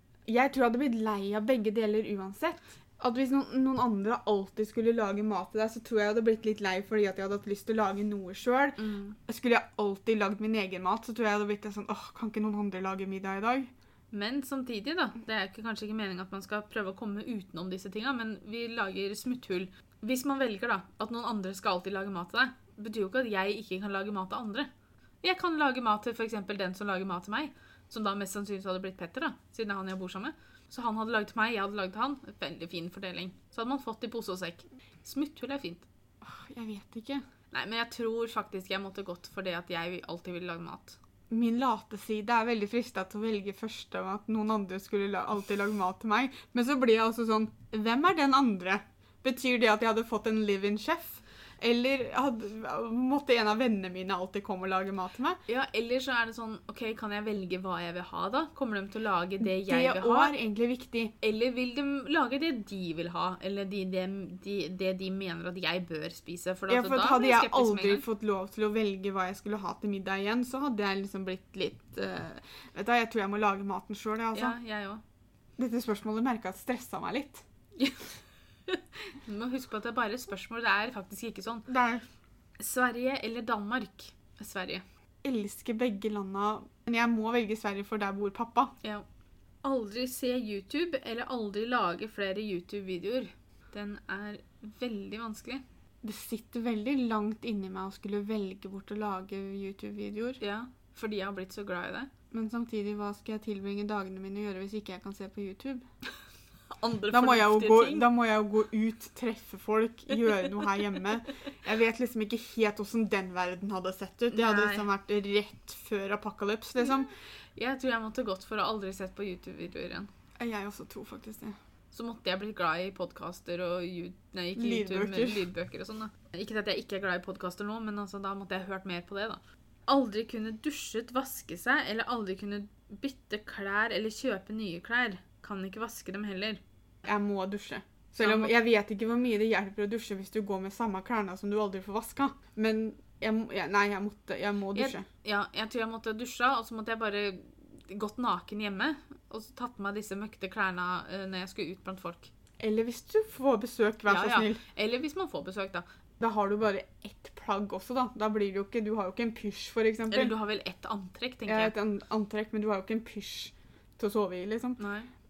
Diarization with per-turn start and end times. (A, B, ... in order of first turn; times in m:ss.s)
0:00.3-0:13.7 A
0:08.8-0:09.2 B
0:14.1-0:24.7 B
0:25.2-0:35.9 B
0:36.2-0:37.2 A
0:37.5-0:41.0 B
0:41.3-0:55.4 A
0:55.5-1:00.4 B
0:59.4-1:01.1 A
1:01.2-1:08.0 B
1:06.7-1:14.6 A
1:14.4-1:15.0 B
1:15.6-1:17.4 A
1:17.8-1:18.1 B
1:18.7-1:21.7 B
1:21.7-1:22.0 A
1:22.6-1:24.8 B
1:25.2-1:28.7 A
1:29.6-1:35.6 B
1:36.0-1:40.4 A
1:40.4-1:42.1 B
1:42.3-1:45.8 A
1:46.8-1:48.1 B
1:47.1-1:57.1 A
1:54.3-1:54.9 B
1:57.6-2:00.1 B
2:00.4-2:01.6 A
2:01.9-2:16.6 B
2:04.6-2:05.5 A
2:17.0-2:25.1 A
2:18.2-2:18.5 B
2:24.7-2:32.3 B
2:32.6-2:34.6 A
2:34.1-2:35.8 B
2:36.2-2:40.3 A
2:40.1-2:41.7 B
2:41.5-2:44.8 A
2:44.8-2:45.1 B